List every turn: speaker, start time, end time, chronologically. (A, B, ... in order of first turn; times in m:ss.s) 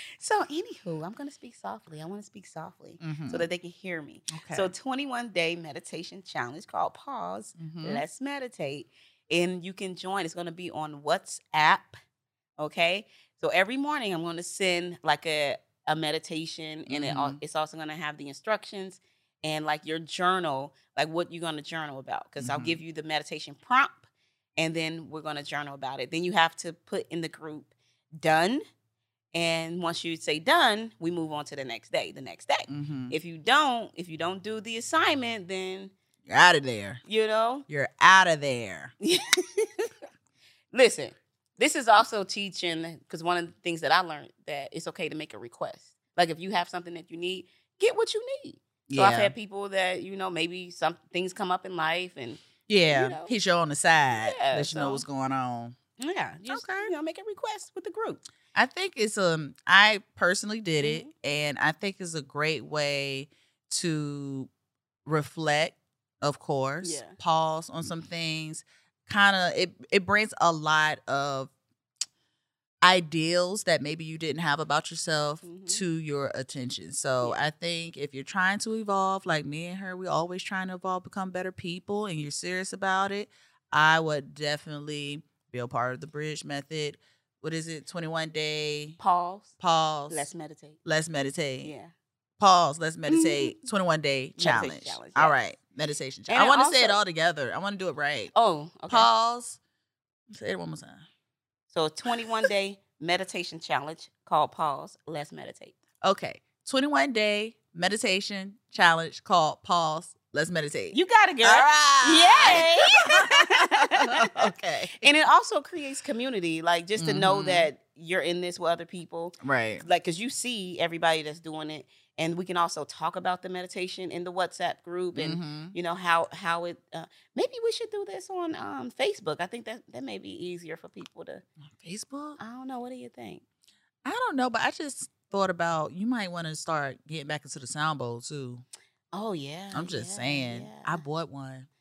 0:00.2-0:12.0 A
0:03.0-0:03.5 B
0:04.3-0:04.7 B
0:07.6-0:08.0 B
0:12.6-0:24.0 A
0:16.9-0:17.4 B
0:22.4-0:22.8 B
0:24.6-0:28.6 A
0:29.3-0:35.9 A
0:32.7-0:33.2 B
0:36.3-0:37.0 B
0:37.0-0:37.7 A
0:37.7-0:38.9 B
0:39.0-0:39.9 A
0:40.7-0:53.3 A
0:48.9-0:49.3 B
0:52.7-0:55.8 B
0:54.1-0:55.0 A
0:56.0-0:58.2 A
0:56.5-0:56.9 B
0:58.5-1:04.5 B
1:00.8-1:01.1 A
1:05.1-1:11.5 B
1:06.8-1:07.2 A
1:12.8-1:29.0 B
1:15.4-1:15.8 A
1:29.0-1:29.5 A
1:29.6-1:30.3 B
1:30.1-1:30.8 A
1:30.8-1:31.7 B
1:31.6-1:31.9 A
1:32.4-1:38.3 B
1:33.1-1:33.6 A
1:34.4-1:35.4 A
1:36.3-1:37.0 A
1:38.3-1:39.1 A
1:38.9-1:39.6 B
1:40.3-1:41.0 B
1:41.7-1:45.8 A
1:42.2-1:42.5 B
1:46.0-1:55.1 B
1:50.9-2:11.4 A
1:57.0-1:57.7 B
1:59.4-1:59.8 B
2:05.2-2:05.8 B
2:11.8-2:12.4 B
2:12.4-2:13.4 A
2:14.0-2:18.6 B
2:19.1-2:21.0 A
2:19.7-2:21.7 B